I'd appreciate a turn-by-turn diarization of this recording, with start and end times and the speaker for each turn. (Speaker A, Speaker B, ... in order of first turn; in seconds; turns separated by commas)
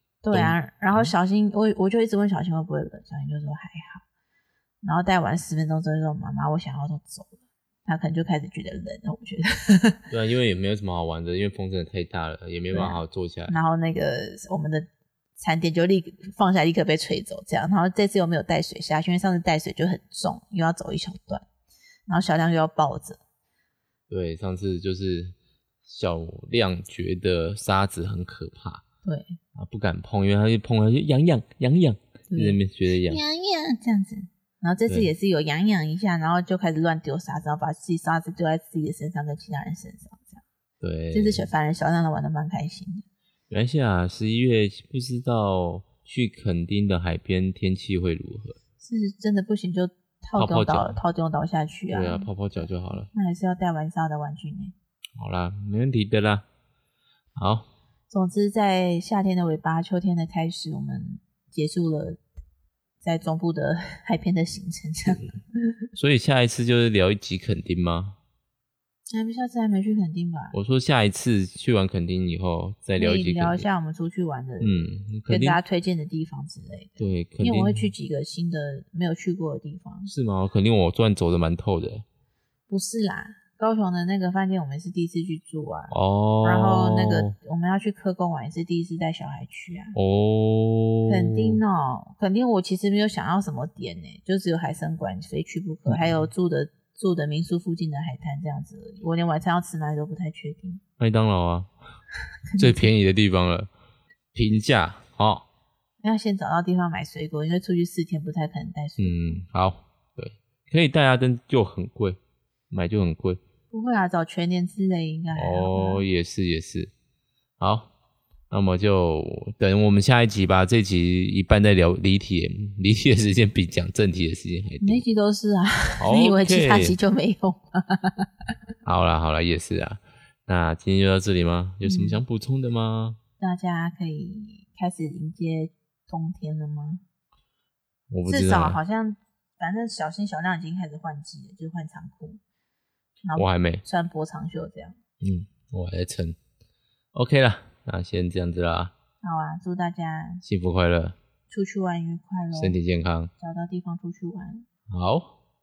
Speaker A: 0.2-4.0, Speaker B: 0.3-1.1, Speaker A: 4.8-10.0, Speaker B: 10.1-13.6, Speaker A: 12.7-14.9, Speaker A: 15.4-21.4, Speaker A: 22.1-23.2, Speaker B: 24.1-25.4, Speaker B: 25.9-28.8, Speaker A: 29.0-29.4, Speaker B: 29.6-33.2, Speaker A: 32.3-40.4, Speaker B: 40.8-41.5, Speaker A: 41.1-43.0, Speaker B: 43.5-48.6, Speaker A: 48.8-54.7, Speaker B: 50.4-51.0, Speaker B: 51.9-53.1, Speaker B: 55.2-56.4, Speaker B: 57.4-57.7, Speaker A: 58.1-62.2, Speaker A: 63.0-65.3, Speaker B: 65.1-65.3, Speaker B: 66.0-68.2, Speaker A: 69.1-70.5, Speaker B: 70.5-73.7, Speaker A: 73.0-80.1, Speaker B: 74.6-75.6, Speaker B: 77.0-77.9, Speaker B: 80.1-82.0, Speaker A: 82.7-90.0, Speaker B: 85.9-87.3, Speaker B: 89.9-91.6, Speaker A: 91.1-100.8, Speaker B: 95.9-96.3, Speaker B: 101.0-101.7, Speaker A: 102.5-102.9, Speaker B: 102.6-103.7, Speaker B: 104.3-105.5, Speaker A: 106.0-109.4, Speaker B: 109.0-112.2, Speaker B: 112.7-113.4, Speaker A: 113.7-116.1, Speaker B: 115.3-116.9, Speaker B: 117.6-117.9, Speaker B: 118.5-125.0, Speaker A: 124.8-128.3, Speaker B: 126.0-127.0, Speaker B: 128.8-133.2, Speaker A: 131.8-132.2, Speaker A: 133.4-137.0, Speaker B: 138.1-138.8, Speaker A: 138.3-142.4, Speaker A: 143.2-144.9, Speaker B: 143.3-143.8, Speaker B: 145.2-146.4, Speaker B: 147.1-148.9, Speaker A: 149.2-150.4, Speaker B: 150.4-151.2, Speaker A: 151.5-152.8, Speaker B: 152.6-153.3, Speaker A: 153.4-154.7, Speaker B: 154.9-155.3